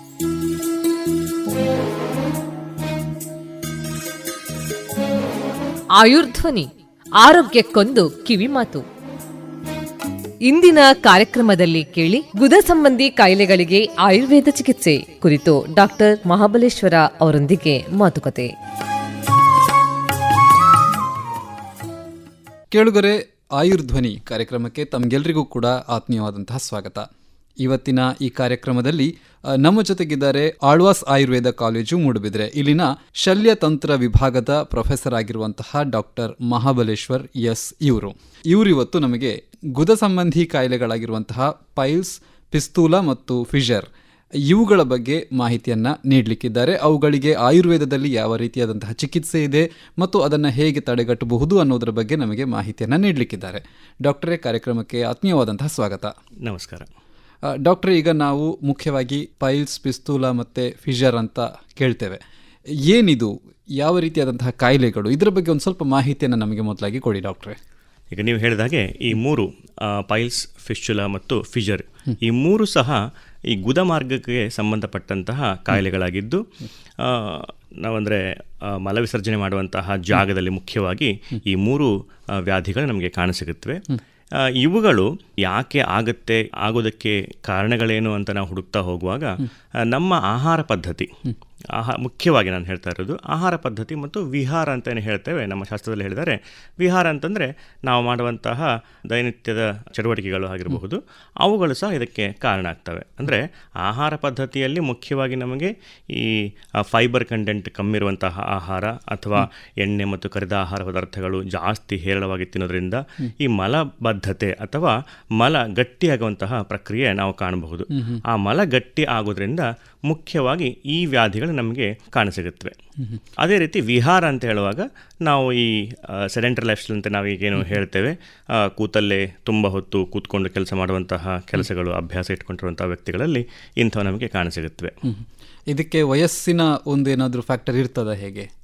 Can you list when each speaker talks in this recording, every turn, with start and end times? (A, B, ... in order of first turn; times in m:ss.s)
0:06.0-0:06.7 A
0:07.2-0:08.8 A
0:10.4-0:18.5 A
0:22.7-0:27.1 B
0:27.6-0:43.9 B
0:44.5-0:56.1 B
0:56.4-0:56.9 C
0:57.6-1:02.2 B
1:02.9-1:07.6 B
1:08.1-1:13.0 C
1:13.6-1:16.4 C
1:17.0-1:23.8 C
1:24.6-1:31.1 C
1:31.8-2:02.8 C
2:03.4-2:14.9 C
2:15.7-2:18.5 B